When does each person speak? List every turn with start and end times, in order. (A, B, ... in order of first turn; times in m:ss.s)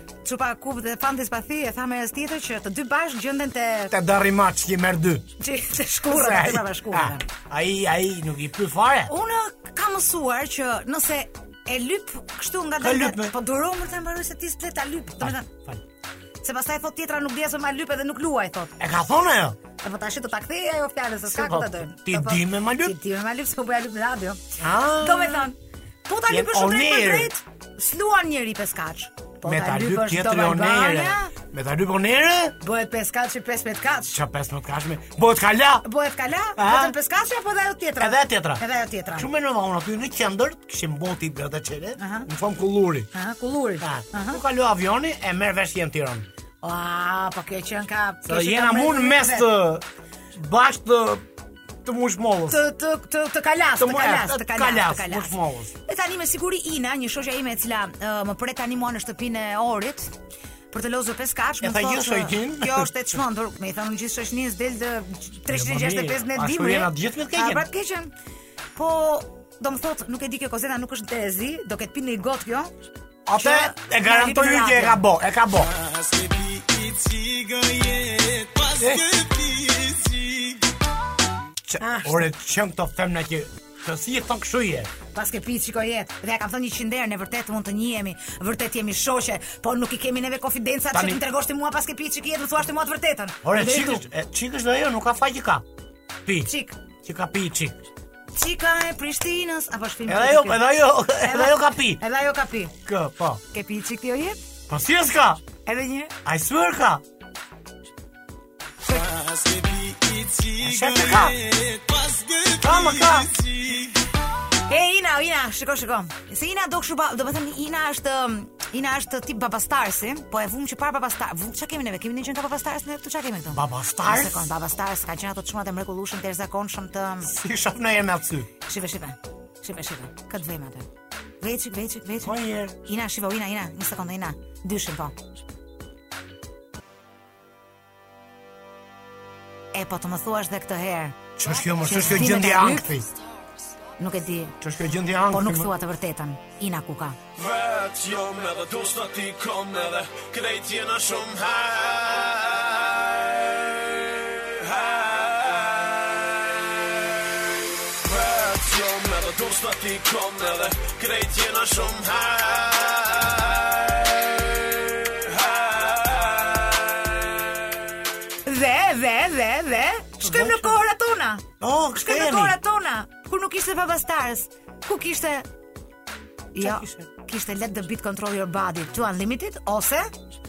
0:00.2-0:03.9 A
0:03.9-0:05.3 B
0:05.4-0:07.2 A
0:06.1-0:09.1 B
0:09.1-0:15.5 A
0:12.8-0:13.3 B
0:15.2-0:15.8 B
0:16.4-0:18.8 A
0:18.8-0:19.6 B
0:19.8-0:31.3 A
0:21.3-0:23.0 B
0:24.6-0:25.5 B
0:26.3-0:27.3 B
0:29.4-0:32.6 B
0:32.6-0:34.2 A
0:34.1-0:35.8 B
0:35.8-0:39.3 A
0:36.6-0:37.0 B
0:38.0-0:38.6 B
0:39.1-0:43.1 B
0:42.0-0:42.3 A
0:43.1-0:44.4 A
0:43.8-0:46.3 B
0:46.6-0:49.5 A
0:48.2-0:51.3 B
0:51.8-0:52.6 B
0:52.5-1:00.1 A
0:53.8-0:55.7 B
1:00.7-1:08.1 A
1:01.6-1:02.9 B
1:05.5-1:07.7 B
1:08.8-1:12.7 A
1:13.3-1:15.7 B
1:13.4-1:15.0 A
1:15.6-1:20.6 C
1:18.8-1:19.0 B
1:21.7-1:24.9 B
1:21.8-1:22.2 A
1:25.1-1:34.0 A
1:30.9-1:31.2 B
1:33.4-1:35.6 B
1:36.5-1:36.8 A
1:37.0-1:37.8 B
1:38.3-1:42.8 A
1:40.1-1:42.0 B
1:42.9-1:43.4 B
1:43.5-1:44.4 A
1:44.7-1:45.4 B
1:45.7-1:46.1 A
1:46.2-1:47.0 B
1:48.8-1:53.9 C
1:50.6-1:51.4 B
1:52.6-1:53.3 B
1:54.7-2:07.3 A
2:03.5-2:04.5 B
2:07.2-2:08.5 B
2:08.7-2:10.9 A
2:11.4-2:15.2 A
2:12.2-2:12.8 B
2:19.7-2:21.2 A
2:21.4-2:23.0 B
2:21.8-2:22.9 A
2:24.0-2:24.6 A
2:24.6-2:25.7 B
2:25.3-2:27.2 A
2:27.4-2:36.3 C
2:37.9-2:46.8 C
2:48.4-2:55.5 A
2:50.2-2:50.8 B
2:51.6-2:52.6 B
2:56.5-3:00.1 A
2:56.6-2:57.1 B